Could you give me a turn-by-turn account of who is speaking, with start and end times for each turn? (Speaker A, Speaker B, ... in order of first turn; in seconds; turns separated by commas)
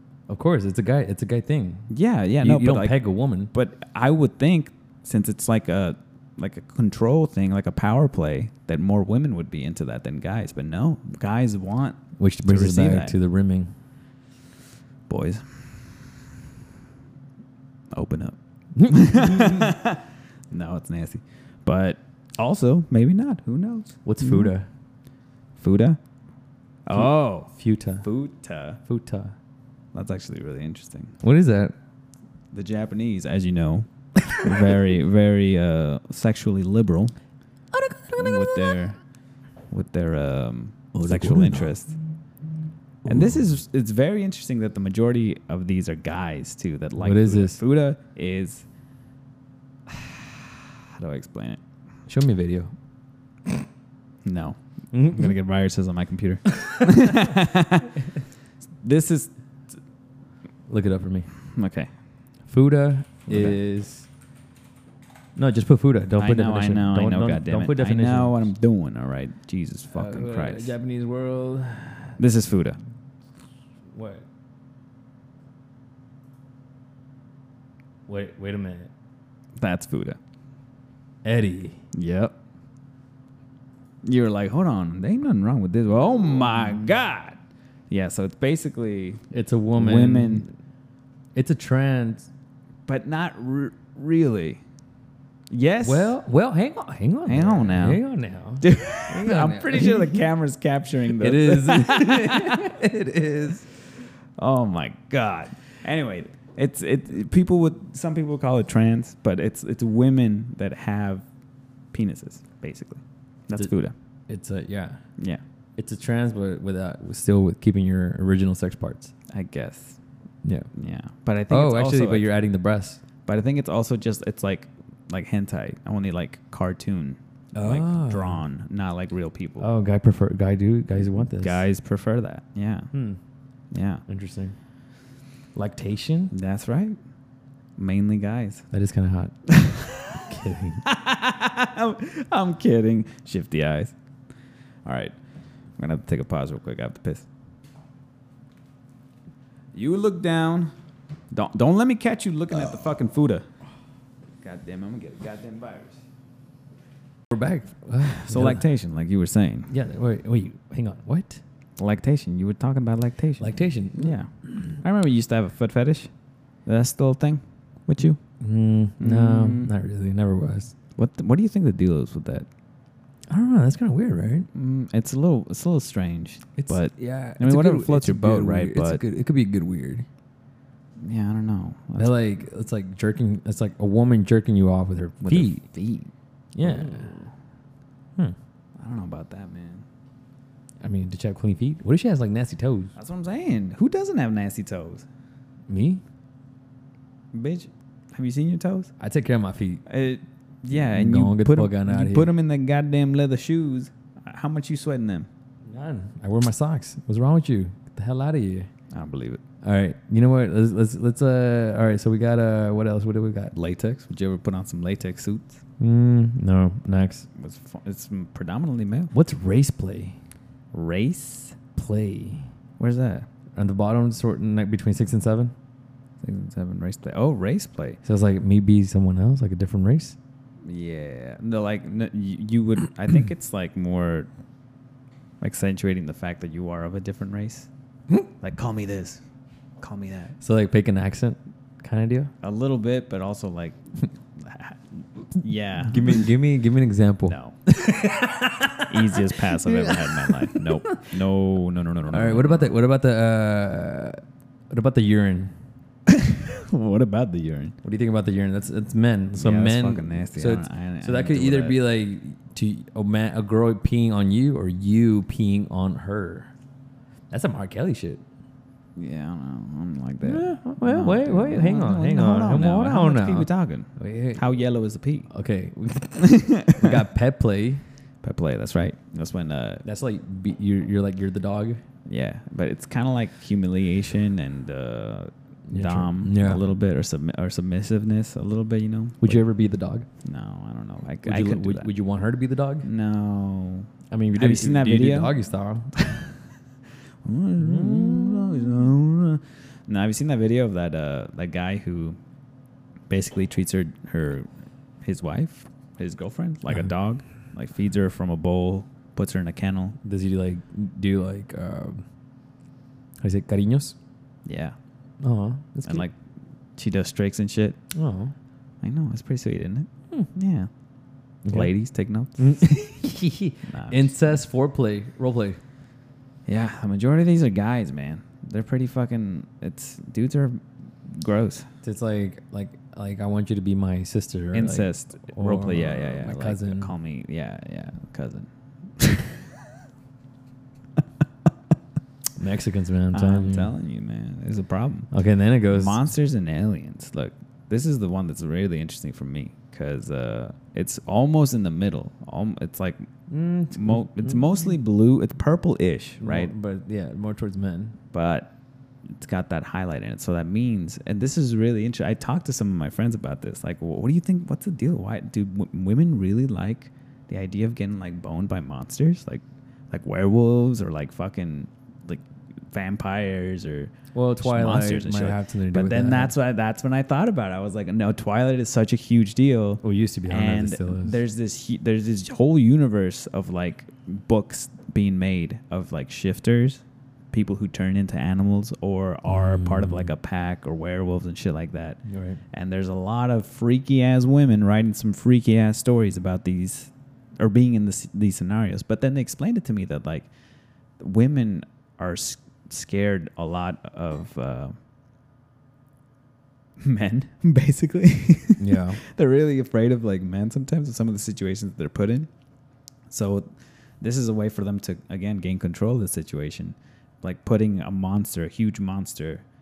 Speaker A: 0.3-3.5, Speaker B: 1.9-3.0, Speaker B: 3.5-13.1, Speaker A: 12.2-13.7, Speaker B: 15.1-16.2, Speaker B: 17.9-24.5, Speaker A: 18.7-19.7, Speaker A: 24.0-24.7, Speaker B: 25.6-26.0, Speaker B: 26.9-28.8, Speaker A: 26.9-28.1, Speaker A: 28.9-29.3, Speaker B: 29.9-31.1, Speaker A: 31.2-31.7, Speaker B: 32.5-37.1, Speaker A: 34.2-34.8, Speaker A: 37.7-38.8, Speaker B: 38.1-39.0, Speaker B: 39.7-41.9, Speaker A: 40.9-41.7, Speaker B: 43.0-48.6, Speaker A: 43.0-43.4, Speaker A: 47.0-47.6, Speaker B: 49.9-51.6, Speaker A: 52.1-52.7, Speaker B: 54.2-58.0, Speaker A: 54.9-55.3, Speaker A: 56.5-57.3, Speaker B: 58.8-59.3, Speaker A: 60.7-61.3, Speaker B: 61.5-61.9, Speaker A: 62.5-64.1, Speaker B: 63.3-63.6, Speaker A: 65.3-68.4, Speaker B: 66.2-70.7, Speaker A: 69.9-72.2, Speaker B: 72.2-72.8, Speaker A: 73.9-74.2, Speaker A: 78.1-78.9, Speaker B: 79.6-80.2, Speaker A: 81.2-81.8, Speaker B: 81.9-82.3, Speaker B: 84.0-87.4, Speaker B: 87.9-89.2, Speaker A: 89.3-90.5, Speaker B: 89.8-90.5, Speaker A: 91.3-92.3, Speaker B: 92.9-94.6, Speaker B: 95.5-96.1, Speaker A: 95.8-100.3, Speaker B: 97.2-98.0, Speaker B: 98.6-102.7, Speaker A: 101.1-103.6, Speaker B: 104.4-111.2, Speaker B: 111.9-113.9, Speaker A: 114.3-115.0, Speaker A: 115.8-119.1, Speaker B: 119.3-120.0, Speaker B: 120.7-122.3, Speaker A: 121.5-123.0, Speaker B: 123.2-129.7, Speaker A: 127.5-128.4, Speaker A: 129.6-131.6, Speaker B: 131.1-132.9, Speaker A: 132.9-133.2, Speaker B: 133.7-134.0, Speaker A: 134.1-134.5, Speaker A: 135.5-136.3, Speaker B: 136.3-137.0, Speaker B: 137.8-138.6, Speaker A: 138.7-139.3, Speaker B: 139.5-140.2, Speaker A: 140.1-140.8, Speaker B: 140.8-143.9, Speaker B: 144.8-145.1, Speaker B: 145.8-147.2, Speaker B: 149.7-150.7, Speaker B: 151.3-153.5, Speaker B: 154.4-156.0, Speaker A: 157.3-158.6, Speaker B: 158.1-159.7, Speaker A: 159.7-161.4, Speaker B: 161.8-166.1, Speaker A: 163.4-164.2, Speaker B: 166.7-168.2, Speaker A: 168.4-170.7, Speaker B: 169.0-169.7, Speaker B: 171.0-172.5, Speaker A: 173.3-174.5, Speaker B: 174.5-179.0, Speaker A: 176.6-180.1, Speaker B: 181.0-182.2, Speaker A: 182.0-185.6, Speaker B: 185.2-187.3, Speaker A: 186.5-187.1, Speaker B: 188.8-189.8, Speaker A: 190.8-192.9, Speaker B: 192.9-195.1, Speaker A: 195.7-196.0, Speaker B: 197.3-198.9, Speaker A: 199.0-199.8, Speaker B: 199.9-205.3, Speaker A: 200.7-202.3, Speaker A: 205.7-208.7, Speaker B: 208.9-209.4, Speaker A: 209.6-213.5, Speaker B: 213.5-215.6, Speaker A: 215.8-217.3, Speaker B: 217.3-219.1, Speaker A: 219.1-220.2, Speaker B: 220.7-221.6, Speaker A: 221.8-222.5, Speaker B: 222.8-223.3, Speaker A: 223.6-225.5, Speaker B: 226.2-228.0, Speaker A: 228.0-230.2, Speaker B: 230.6-234.3, Speaker B: 235.4-237.7, Speaker B: 238.4-239.2, Speaker B: 239.8-240.4, Speaker A: 240.4-242.3, Speaker B: 242.4-243.8, Speaker B: 244.3-246.3, Speaker A: 245.8-251.0, Speaker B: 247.3-247.6, Speaker B: 248.9-252.8, Speaker A: 252.1-254.2, Speaker A: 254.7-255.5, Speaker B: 256.1-257.7, Speaker A: 257.8-266.5, Speaker B: 259.4-261.8, Speaker A: 267.3-268.2, Speaker B: 268.9-275.3, Speaker A: 270.2-274.4, Speaker A: 275.3-277.8, Speaker B: 276.1-277.0, Speaker B: 278.2-279.8, Speaker A: 279.8-281.8, Speaker B: 282.1-289.4, Speaker A: 285.7-286.6, Speaker A: 289.2-290.1, Speaker B: 290.2-291.9, Speaker A: 291.2-292.9, Speaker B: 292.8-295.3, Speaker A: 294.1-295.9, Speaker B: 296.0-296.3, Speaker B: 297.2-302.2, Speaker A: 297.6-298.9, Speaker B: 303.1-304.5, Speaker B: 305.0-310.0, Speaker A: 310.0-312.0, Speaker A: 313.2-313.9, Speaker B: 314.4-314.8, Speaker A: 315.2-316.1, Speaker B: 315.9-316.1, Speaker B: 316.8-317.8, Speaker A: 317.9-318.3, Speaker B: 318.8-320.7, Speaker A: 321.4-321.7, Speaker B: 321.5-322.8, Speaker A: 322.4-325.6, Speaker B: 323.6-324.3, Speaker B: 326.5-331.7, Speaker A: 331.8-336.9, Speaker B: 334.5-339.5, Speaker A: 342.4-343.7, Speaker B: 343.1-345.1, Speaker A: 345.1-346.0, Speaker B: 345.7-353.1, Speaker A: 353.3-354.7, Speaker B: 353.7-356.5, Speaker A: 356.2-358.0, Speaker B: 358.1-358.5, Speaker B: 359.1-392.0, Speaker A: 374.1-376.3, Speaker A: 379.8-381.2, Speaker A: 389.3-390.1, Speaker A: 392.1-392.4, Speaker B: 392.5-400.3, Speaker B: 401.0-404.8, Speaker B: 406.8-412.3, Speaker A: 408.6-409.0, Speaker B: 413.1-413.5, Speaker B: 414.0-419.4